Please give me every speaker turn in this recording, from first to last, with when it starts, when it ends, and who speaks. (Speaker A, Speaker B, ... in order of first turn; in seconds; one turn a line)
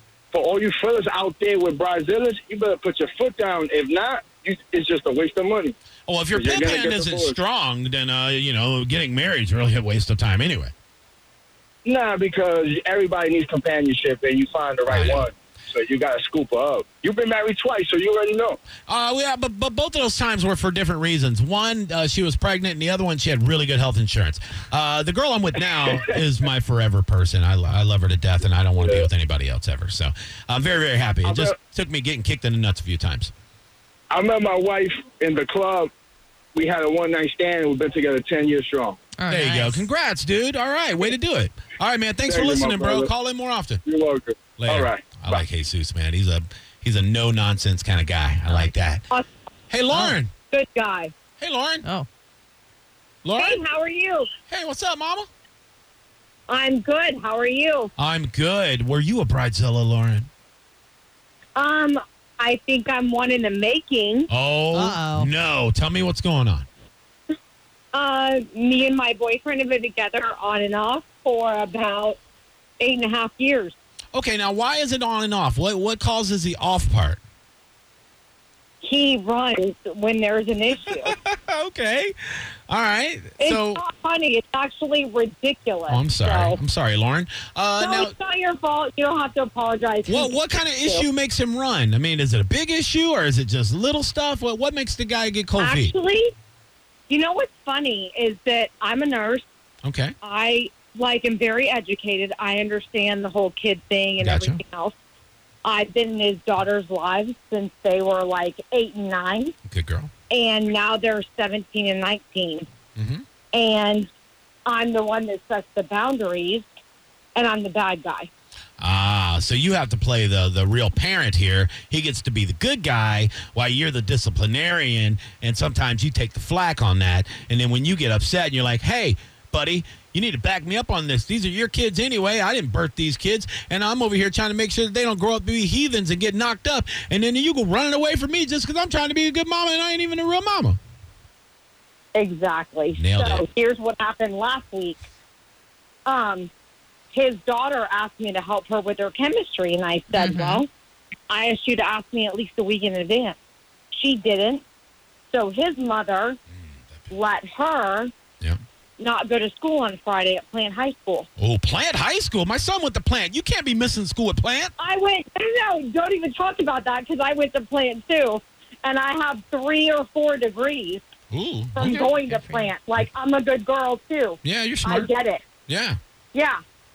Speaker A: 0.3-5.7
Speaker B: 6.1-10.7
Speaker A: 6.3-7.4
Speaker A: 11.8-18.6
Speaker B: 14.9-15.2
Speaker B: 18.9-33.3
Speaker A: 28.8-29.1
Speaker A: 31.2-31.5
Speaker A: 34.1-35.9
Speaker A: 36.5-39.0
Speaker C: 39.2-39.9
Speaker B: 39.3-43.8
Speaker A: 42.2-43.1
Speaker A: 43.8-45.4
Speaker B: 44.6-49.0
Speaker C: 48.5-48.7
Speaker B: 49.7-50.3
Speaker D: 50.5-51.1
Speaker B: 51.4-51.8
Speaker B: 53.2-53.6
Speaker D: 53.4-54.3
Speaker B: 54.5-55.3
Speaker D: 56.5-57.9
Speaker B: 58.0-60.3
Speaker D: 61.5-64.3
Speaker B: 64.3-66.7
Speaker C: 64.7-65.3
Speaker D: 67.9-72.2
Speaker D: 72.8-73.7
Speaker B: 74.1-77.2
Speaker D: 78.8-81.1
Speaker B: 80.9-82.1
Speaker B: 82.7-83.8
Speaker D: 83.4-86.6
Speaker B: 85.9-88.1
Speaker D: 87.8-91.0
Speaker B: 90.1-95.9
Speaker D: 95.6-96.3
Speaker D: 97.1-99.4
Speaker B: 99.8-100.1
Speaker D: 100.2-104.9
Speaker B: 104.2-104.6
Speaker D: 105.6-109.5
Speaker B: 109.7-110.1
Speaker D: 110.3-112.7
Speaker B: 113.0-113.2
Speaker D: 113.5-114.1
Speaker D: 114.6-116.7
Speaker D: 117.3-118.3
Speaker B: 118.8-140.8
Speaker D: 142.1-145.0
Speaker B: 142.9-143.4
Speaker D: 146.1-146.5
Speaker D: 147.1-150.7
Speaker C: 150.1-150.6
Speaker D: 151.3-153.4
Speaker D: 153.9-154.6
Speaker D: 155.3-156.4
Speaker D: 157.1-158.1
Speaker D: 159.0-161.3
Speaker B: 161.4-164.7
Speaker D: 164.8-171.0
Speaker B: 171.3-172.3
Speaker D: 171.7-175.4
Speaker C: 172.3-172.7
Speaker B: 174.4-175.1
Speaker B: 175.7-176.0
Speaker D: 176.3-176.6